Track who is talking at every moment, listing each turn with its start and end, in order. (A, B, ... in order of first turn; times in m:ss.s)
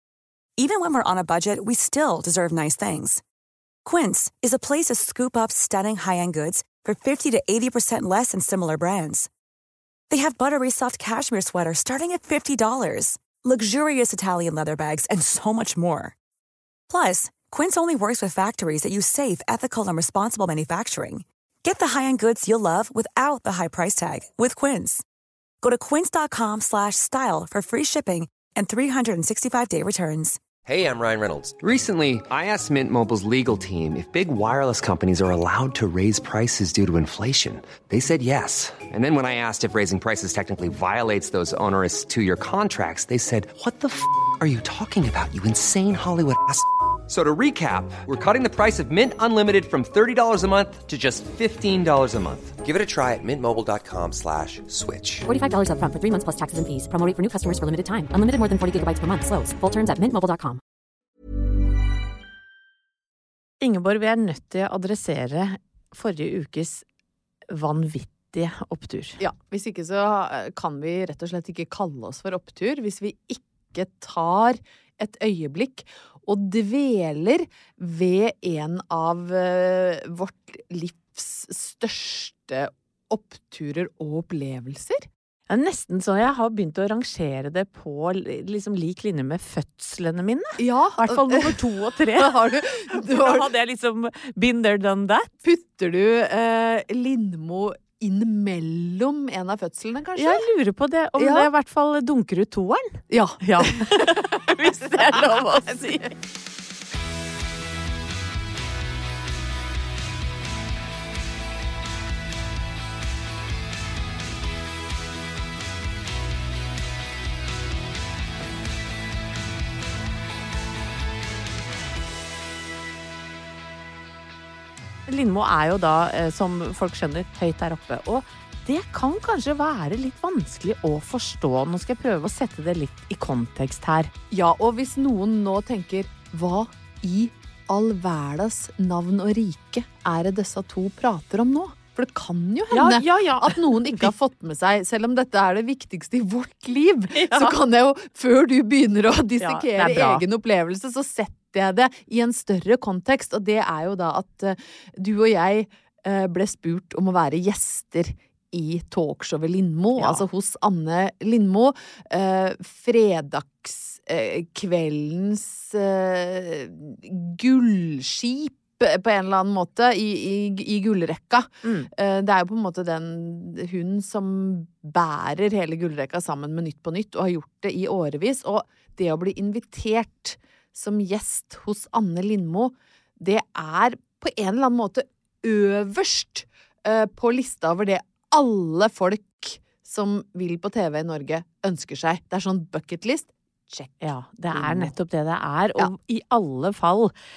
0:00.6-0:03.2 A
0:03.8-0:09.3 A
0:10.1-0:16.2 A
0:16.9-0:25.0 A
0:25.6-0:30.4 A
0:30.7-0:55.2 B
0:55.2-1:00.6 C
1:03.6-1:06.8 D
1:07.5-1:09.2 D
1:09.2-1:25.1 E
1:25.5-1:35.3 D
1:30.6-1:33.5 E
1:35.4-1:40.4 E
1:40.2-1:46.1 D
1:41.2-1:41.5 E
1:43.1-1:45.7 E
2:05.1-2:14.1 D
2:14.3-3:14.9 E
2:22.7-2:24.1 D
2:27.1-2:27.6 D
2:29.4-2:30.2 D
2:40.0-2:40.3 D
2:51.6-2:51.9 D
3:14.0-3:17.1 D